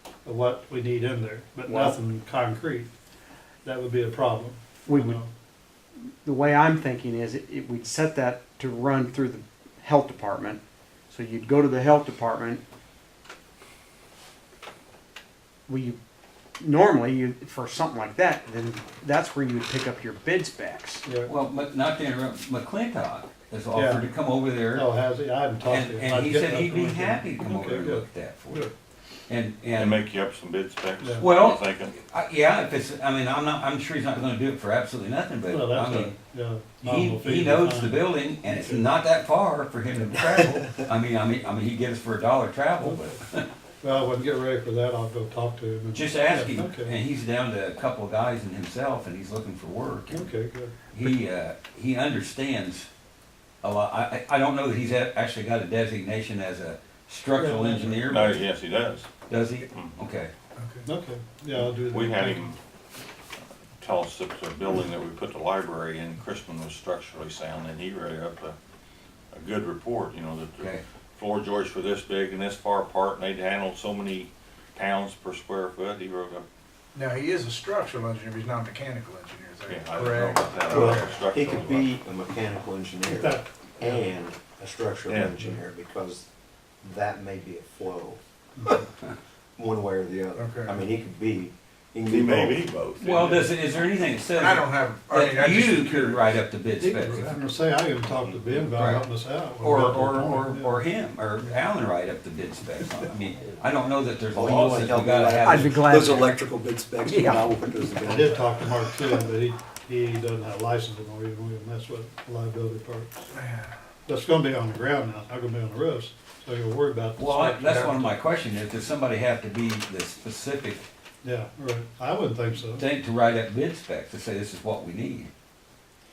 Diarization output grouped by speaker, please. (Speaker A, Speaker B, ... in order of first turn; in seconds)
Speaker A: 0.2-2.9, 3.6-5.3, 21.0-21.3, 23.7-24.1, 24.7-28.7, 31.0-31.3, 35.5-38.8, 42.8-43.1, 43.8-47.0, 50.1-50.8, 57.4-58.0, 60.9-62.5, 83.1-84.0, 96.8-100.8, 108.0-113.1, 114.0-118.1, 121.2-122.9
Speaker B: 1.6-2.0, 4.8-5.2, 6.2-12.6, 15.7-16.0, 16.6-21.0, 105.4-106.4, 107.0-107.5
Speaker C: 21.2-24.9, 25.7-28.7, 29.3-30.0, 31.2-36.1, 36.8-43.5, 45.9-50.3, 50.9-52.9, 53.6-58.4, 59.3-60.3, 93.0-97.4, 98.1-105.8, 117.2-120.8, 122.7-125.3
Speaker D: 29.7-31.9, 58.1-59.1, 61.5-62.5, 63.8-68.5, 69.3-76.4, 79.7-81.9, 85.1-85.4, 92.1-93.5
Speaker E: 60.6-60.9, 76.9-81.2, 90.3-90.8, 94.3-96.3, 113.3-113.7
Speaker F: 80.7-86.3, 86.8-88.8, 89.5-92.6, 104.3-108.8